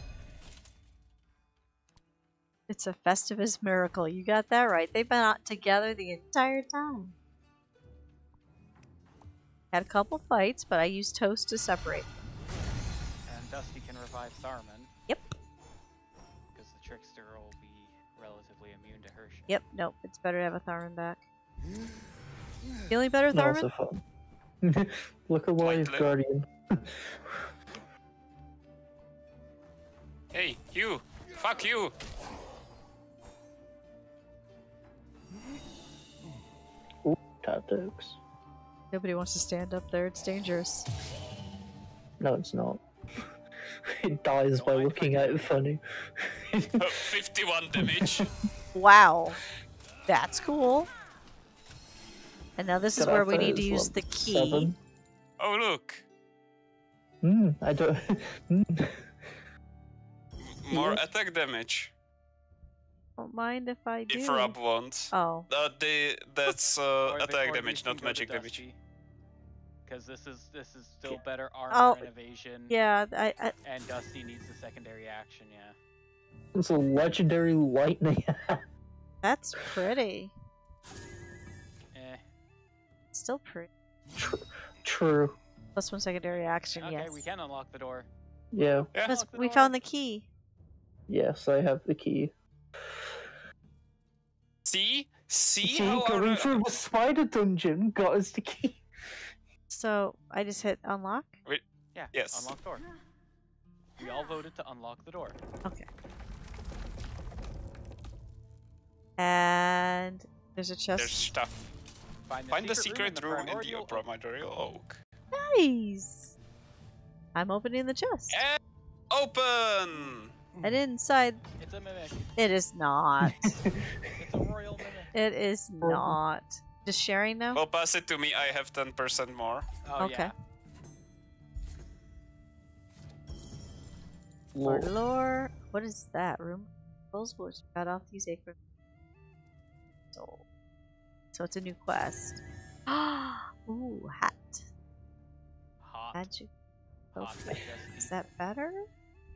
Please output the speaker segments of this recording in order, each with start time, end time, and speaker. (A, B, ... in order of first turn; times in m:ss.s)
0:02.7-0:07.2 A
0:09.7-0:12.1 A
0:13.3-0:14.9 B
0:15.1-0:15.3 A
0:16.5-0:19.6 B
0:19.5-0:21.2 A
0:22.9-0:23.7 A
0:23.3-0:24.0 C
0:24.6-0:27.5 C
0:25.6-0:26.1 D
0:30.3-0:31.9 D
0:37.0-0:38.2 C
0:38.9-0:40.9 A
0:42.2-0:43.2 C
0:43.9-0:47.0 C
0:44.5-0:45.5 B
0:46.8-0:48.2 D
0:47.8-0:48.3 C
0:48.7-0:49.4 A
0:50.1-0:50.9 A
0:52.6-0:54.7 A
0:53.0-0:54.8 C
0:55.4-0:56.0 D
0:57.2-0:59.1 C
1:00.6-1:01.9 D
1:00.7-1:01.0 C
1:03.2-1:04.6 A
1:04.1-1:08.6 D
1:05.1-1:05.5 A
1:07.0-1:08.8 B
1:09.9-1:12.7 B
1:11.7-1:12.1 A
1:12.7-1:13.5 A
1:13.6-1:15.8 B
1:16.6-1:18.6 C
1:19.2-1:20.3 A
1:21.9-1:22.2 B
1:23.1-1:23.7 A
1:24.2-1:25.4 C
1:25.8-1:27.2 A
1:26.3-1:28.1 B
1:28.5-1:28.9 C
1:28.9-1:29.7 B
1:29.1-1:30.3 A
1:31.1-1:33.2 C
1:34.6-1:36.5 D
1:35.6-1:38.8 C
1:39.7-1:41.4 A
1:41.4-1:42.6 D
1:41.9-1:42.8 B
1:44.0-1:45.4 B
1:49.2-1:51.3 A
1:51.0-1:51.7 D
1:52.3-1:54.1 B
1:52.5-1:55.0 D
1:55.3-1:56.4 A
1:57.4-1:58.4 A
1:58.3-1:58.6 D
1:59.1-2:00.3 D
2:00.6-2:01.4 A
2:01.6-2:02.3 B
2:02.4-2:03.6 A
2:03.2-2:04.1 C
2:04.1-2:05.2 B
2:05.1-2:07.6 A
2:05.8-2:06.2 C
2:07.5-2:09.7 D
2:09.8-2:10.3 B
2:10.0-2:10.3 A
2:14.5-2:14.9 C
2:14.6-2:18.6 A
2:20.1-2:20.4 A
2:21.3-2:24.6 A
2:25.8-2:26.3 B
2:26.1-2:26.5 A
2:27.1-2:28.8 A
2:27.2-2:28.2 B